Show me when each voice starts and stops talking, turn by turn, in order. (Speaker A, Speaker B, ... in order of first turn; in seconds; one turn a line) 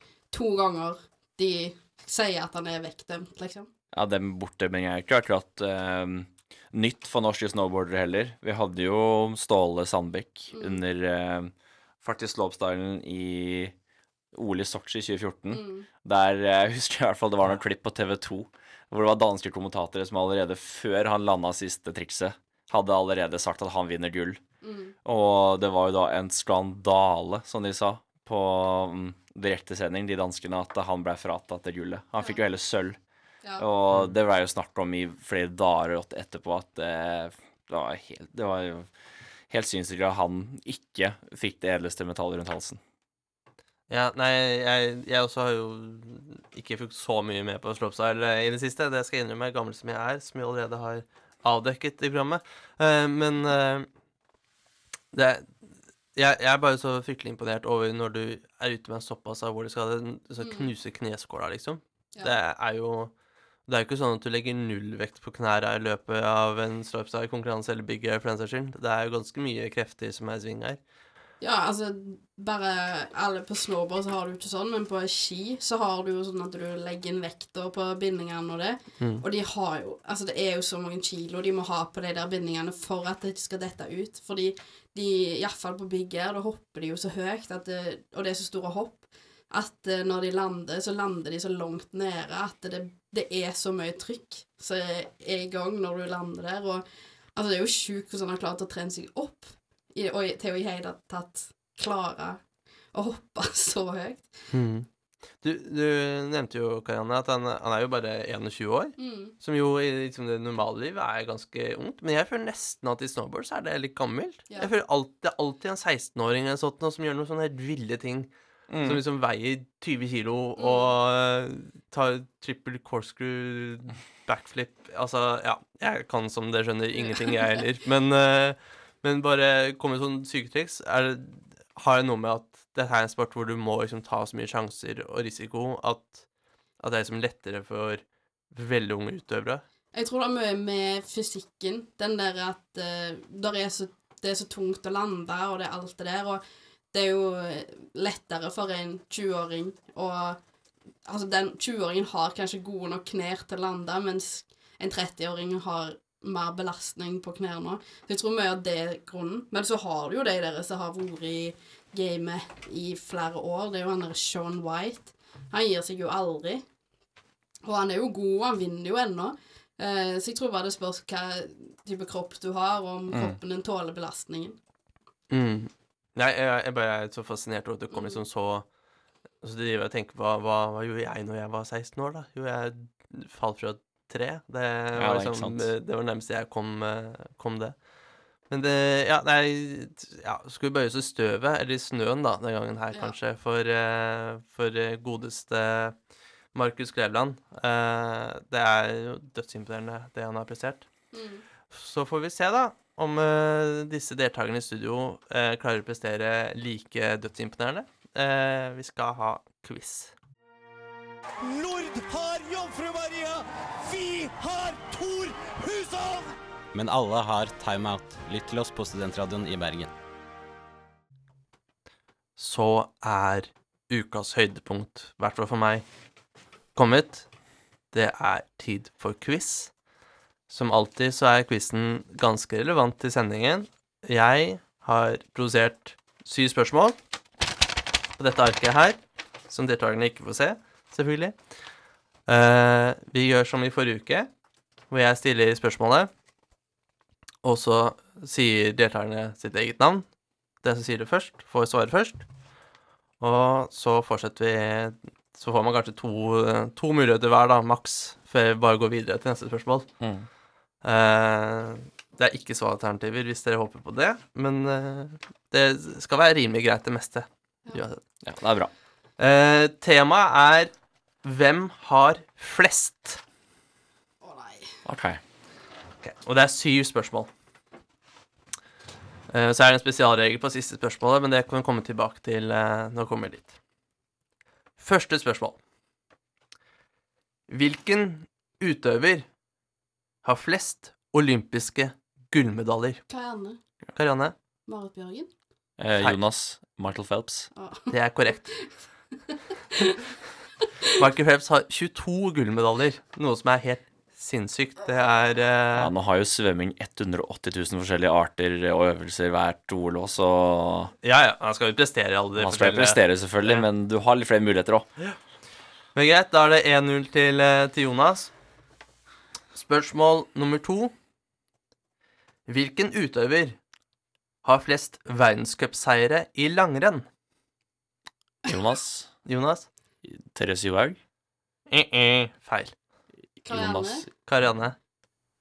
Speaker A: 0.3-3.7
Speaker B: 3.9-13.7
Speaker A: 10.5-10.8
Speaker B: 14.3-24.4
Speaker A: 15.5-15.9
Speaker A: 24.6-24.9
Speaker B: 25.1-33.0
Speaker B: 33.6-38.9
Speaker B: 39.5-42.8
Speaker C: 43.9-53.9
Speaker C: 55.1-63.1
Speaker A: 60.4-60.7
Speaker C: 63.7-70.8
Speaker A: 71.4-102.4
Speaker A: 102.9-104.5
Speaker C: 104.5-104.9
Speaker C: 105.4-118.3
Speaker A: 109.0-109.3
Speaker B: 118.7-119.0
Speaker C: 118.8-139.6
Speaker A: 120.6-120.9
Speaker A: 139.9-150.4
Speaker A: 151.1-166.6
Speaker A: 167.6-174.6
Speaker B: 173.1-173.4
Speaker C: 175.3-178.7
Speaker A: 177.9-178.2
Speaker C: 179.4-187.8
Speaker B: 185.0-185.7
Speaker C: 188.5-196.0
Speaker C: 196.5-200.9
Speaker A: 201.1-201.4
Speaker C: 201.7-210.2
Speaker D: 211.4-216.4
Speaker E: 216.7-219.9
Speaker C: 222.4-225.8
Speaker C: 226.8-227.3
Speaker C: 227.9-229.7
Speaker C: 230.5-237.0
Speaker C: 238.2-241.4
Speaker C: 242.3-244.3
Speaker C: 244.9-246.1
Speaker C: 247.4-250.1
Speaker C: 250.6-252.2
Speaker C: 253.2-259.9
Speaker B: 260.0-260.3
Speaker C: 260.8-268.0
Speaker B: 268.2-268.7
Speaker C: 269.2-270.7
Speaker C: 271.2-273.2
Speaker A: 274.2-274.8
Speaker B: 274.9-275.2
Speaker C: 276.0-277.3
Speaker C: 279.3-283.6
Speaker C: 284.8-285.6
Speaker C: 287.5-289.3
Speaker C: 290.2-293.0
Speaker A: 293.1-293.6
Speaker C: 294.0-294.3
Speaker A: 294.7-295.3
Speaker B: 295.8-297.5
Speaker A: 297.6-297.9
Speaker C: 297.9-298.5
Speaker A: 298.5-299.9
Speaker C: 300.9-305.9
Speaker B: 305.8-310.9
Speaker C: 311.0-313.6
Speaker B: 312.4-314.9
Speaker C: 315.9-318.3
Speaker C: 319.5-320.9
Speaker C: 322.5-323.6
Speaker C: 324.4-327.1
Speaker B: 328.5-329.1
Speaker C: 329.3-329.7
Speaker B: 330.0-331.0
Speaker C: 331.7-332.7
Speaker B: 333.4-334.1
Speaker A: 333.5-334.1
Speaker C: 334.2-334.8